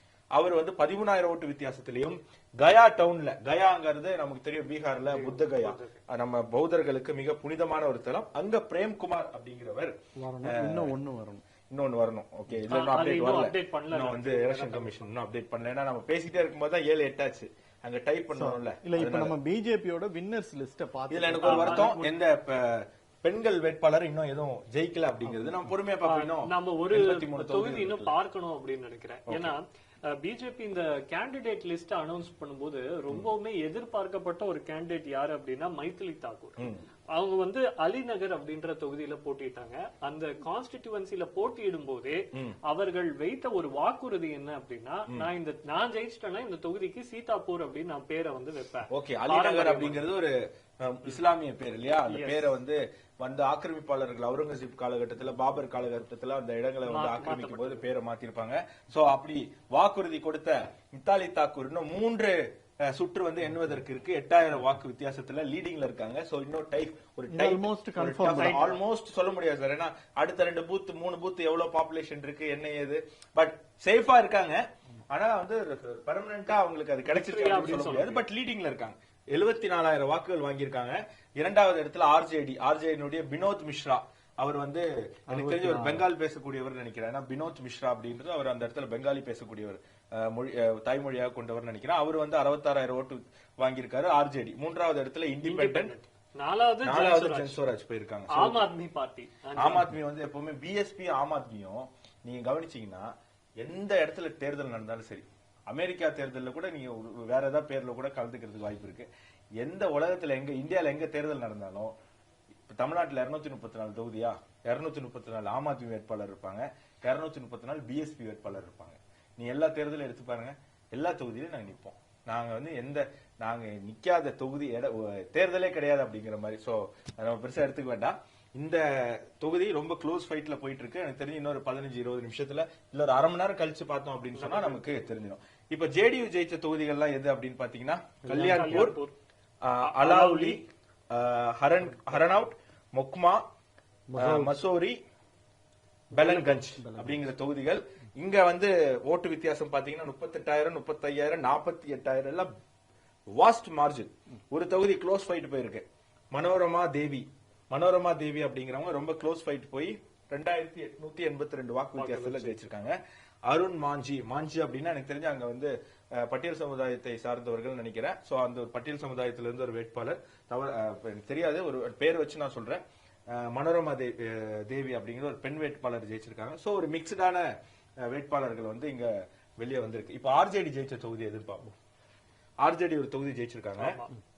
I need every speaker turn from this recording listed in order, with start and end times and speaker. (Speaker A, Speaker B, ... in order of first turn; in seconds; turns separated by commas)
Speaker A: 0.3-10.9, Speaker B: 5.1-6.0, Speaker C: 10.2-11.4, Speaker A: 11.7-19.3, Speaker B: 12.7-15.1, Speaker C: 18.3-21.9, Speaker A: 21.1-28.1, Speaker B: 21.4-22.1, Speaker B: 26.0-50.0, Speaker A: 29.3-29.5, Speaker A: 36.6-36.9, Speaker A: 48.9-95.9, Speaker B: 52.1-52.5, Speaker B: 56.9-57.9, Speaker C: 67.3-68.7, Speaker B: 68.4-68.8, Speaker B: 77.1-78.2, Speaker C: 85.3-86.0, Speaker B: 95.5-97.6, Speaker A: 96.8-98.7, Speaker B: 98.3-99.9, Speaker A: 99.6-109.1, Speaker A: 109.6-112.0, Speaker A: 112.7-139.0, Speaker B: 134.4-135.1, Speaker C: 138.2-138.8, Speaker B: 138.3-139.1, Speaker A: 139.6-143.4, Speaker B: 139.8-140.6, Speaker C: 144.1-144.6, Speaker A: 144.2-145.0, Speaker A: 146.1-152.5, Speaker C: 146.2-147.3, Speaker A: 153.3-163.0, Speaker B: 161.9-162.6, Speaker A: 163.5-177.5, Speaker A: 178.0-181.7, Speaker A: 182.6-184.0, Speaker B: 183.8-184.1